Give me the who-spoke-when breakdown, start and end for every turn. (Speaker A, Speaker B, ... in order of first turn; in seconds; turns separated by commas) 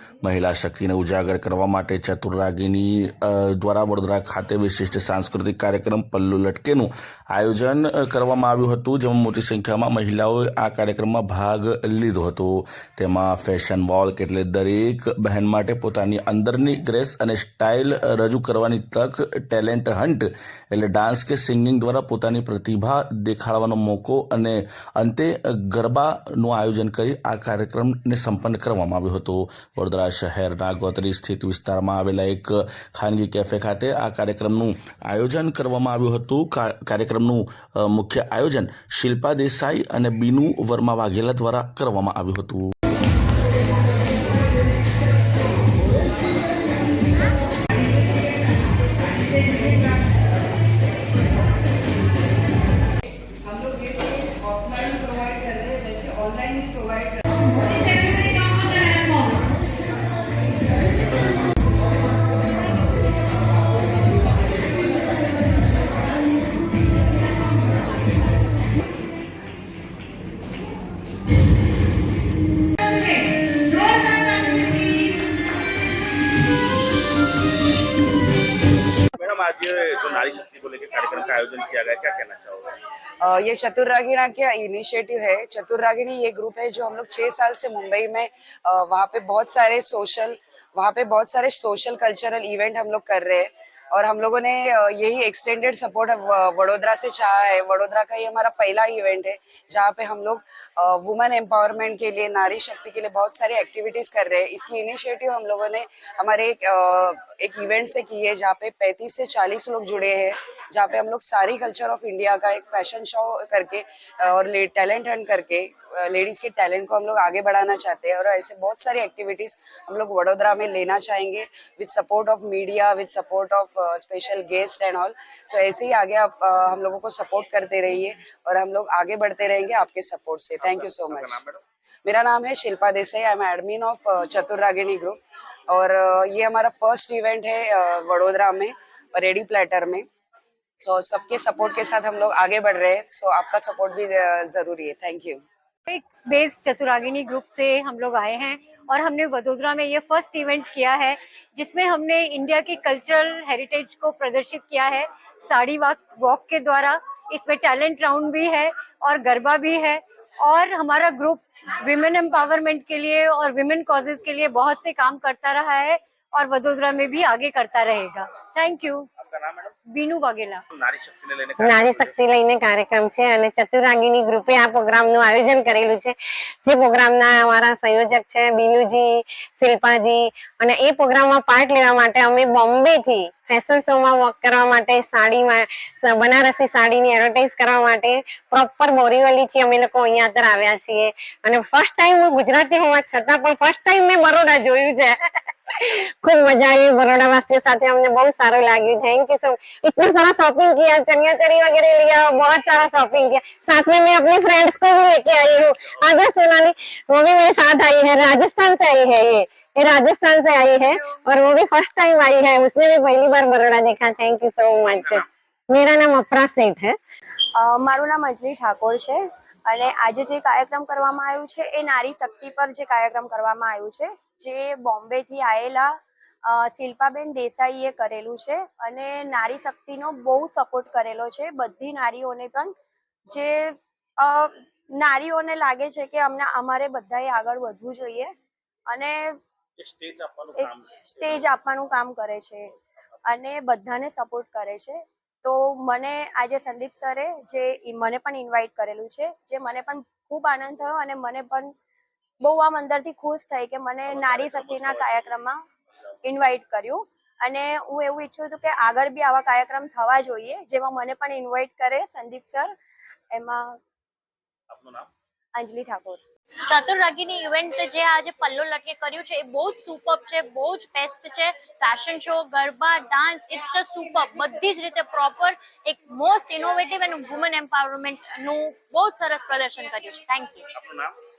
Speaker A: 0.2-42.7, Speaker B: 53.4-57.2, Speaker C: 57.5-59.5, Speaker D: 79.2-82.7, Speaker B: 83.2-131.4, Speaker D: 130.6-131.6, Speaker B: 132.1-140.1, Speaker B: 140.8-145.4, Speaker C: 145.9-169.1, Speaker D: 169.2-169.8, Speaker C: 169.9-170.6, Speaker D: 170.7-172.2, Speaker E: 171.6-195.2, Speaker E: 195.7-217.0, Speaker D: 205.5-206.0, Speaker D: 214.8-215.2, Speaker F: 217.6-232.7, Speaker F: 233.3-238.3, Speaker F: 238.9-239.4, Speaker D: 239.8-241.6, Speaker F: 240.6-242.7, Speaker F: 243.3-251.7, Speaker F: 252.4-255.6, Speaker D: 254.1-255.4, Speaker F: 256.2-262.7, Speaker F: 263.3-263.8, Speaker D: 264.7-265.1, Speaker F: 265.6-266.2, Speaker G: 266.7-280.7, Speaker D: 280.8-281.1